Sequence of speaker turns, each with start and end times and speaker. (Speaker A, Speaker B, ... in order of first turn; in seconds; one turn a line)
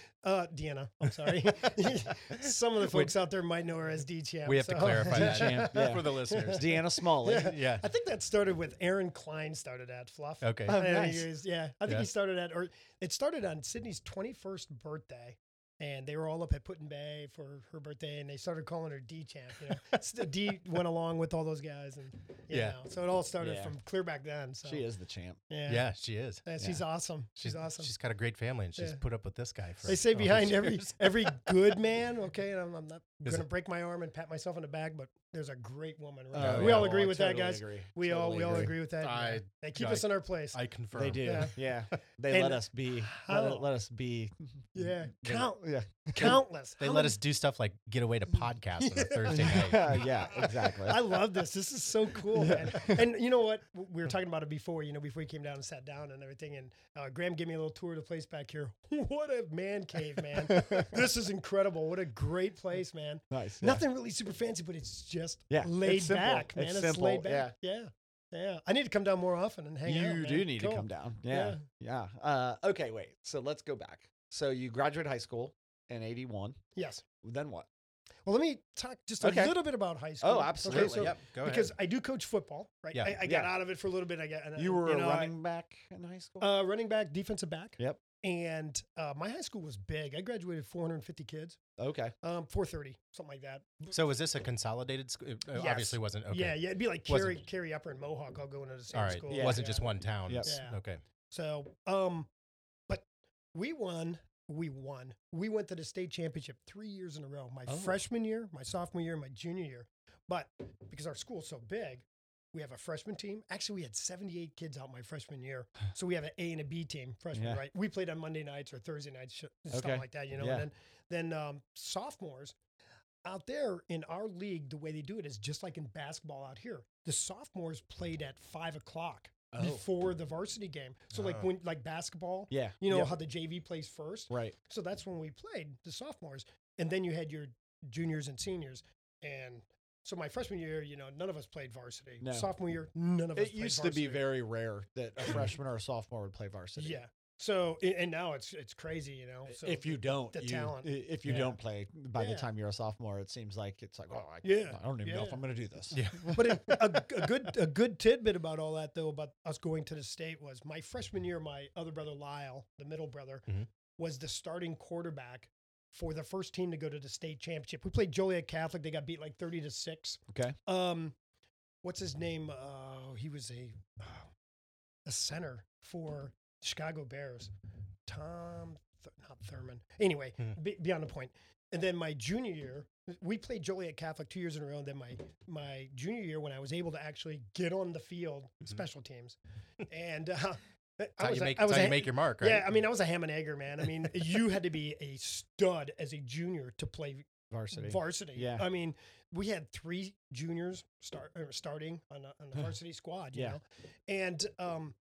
Speaker A: 0.2-24.9
Speaker B: 2.3-3.1
Speaker B: 4.4-6.7
Speaker C: 5.1-7.5
Speaker B: 7.3-7.8
Speaker B: 10.4-10.8
Speaker C: 10.7-11.3
Speaker B: 22.5-22.8
Speaker C: 23.4-23.7
Speaker C: 24.6-25.4
Speaker A: 25.5-25.9
Speaker B: 25.6-26.4
Speaker A: 26.4-27.9
Speaker B: 27.4-31.6
Speaker A: 29.8-40.6
Speaker C: 36.3-38.7
Speaker B: 36.4-36.9
Speaker B: 39.0-41.5
Speaker C: 40.9-46.4
Speaker A: 41.1-41.6
Speaker A: 42.3-43.6
Speaker A: 44.7-47.2
Speaker B: 46.8-50.1
Speaker A: 48.8-71.6
Speaker C: 49.3-51.1
Speaker C: 52.3-52.9
Speaker B: 60.5-60.8
Speaker C: 63.3-63.8
Speaker C: 65.5-67.5
Speaker C: 69.8-76.6
Speaker A: 76.8-77.0
Speaker C: 77.2-77.7
Speaker A: 78.2-85.3
Speaker C: 79.2-79.5
Speaker C: 80.2-81.1
Speaker B: 80.7-81.7
Speaker C: 83.2-83.5
Speaker C: 84.6-86.5
Speaker A: 86.4-91.6
Speaker C: 91.8-92.1
Speaker A: 92.2-94.0
Speaker B: 93.9-97.4
Speaker A: 95.5-100.8
Speaker B: 98.9-101.0
Speaker C: 99.3-99.6
Speaker C: 100.3-100.5
Speaker A: 101.3-102.3
Speaker A: 102.9-122.5
Speaker C: 107.7-108.0
Speaker C: 117.3-117.6
Speaker C: 119.7-120.7
Speaker A: 123.2-144.3
Speaker C: 129.5-129.8
Speaker B: 131.1-131.5
Speaker C: 132.5-133.2
Speaker C: 134.3-134.5
Speaker C: 142.2-142.5
Speaker C: 143.3-147.0
Speaker A: 146.8-151.6
Speaker C: 149.5-156.4
Speaker A: 152.2-152.5
Speaker A: 154.4-155.4
Speaker B: 155.9-156.8
Speaker A: 156.3-163.5
Speaker A: 164.0-171.1
Speaker C: 170.3-170.6
Speaker A: 171.8-174.3
Speaker A: 175.1-177.5
Speaker A: 178.1-189.3
Speaker A: 189.9-204.9
Speaker B: 191.2-192.7
Speaker C: 197.5-198.7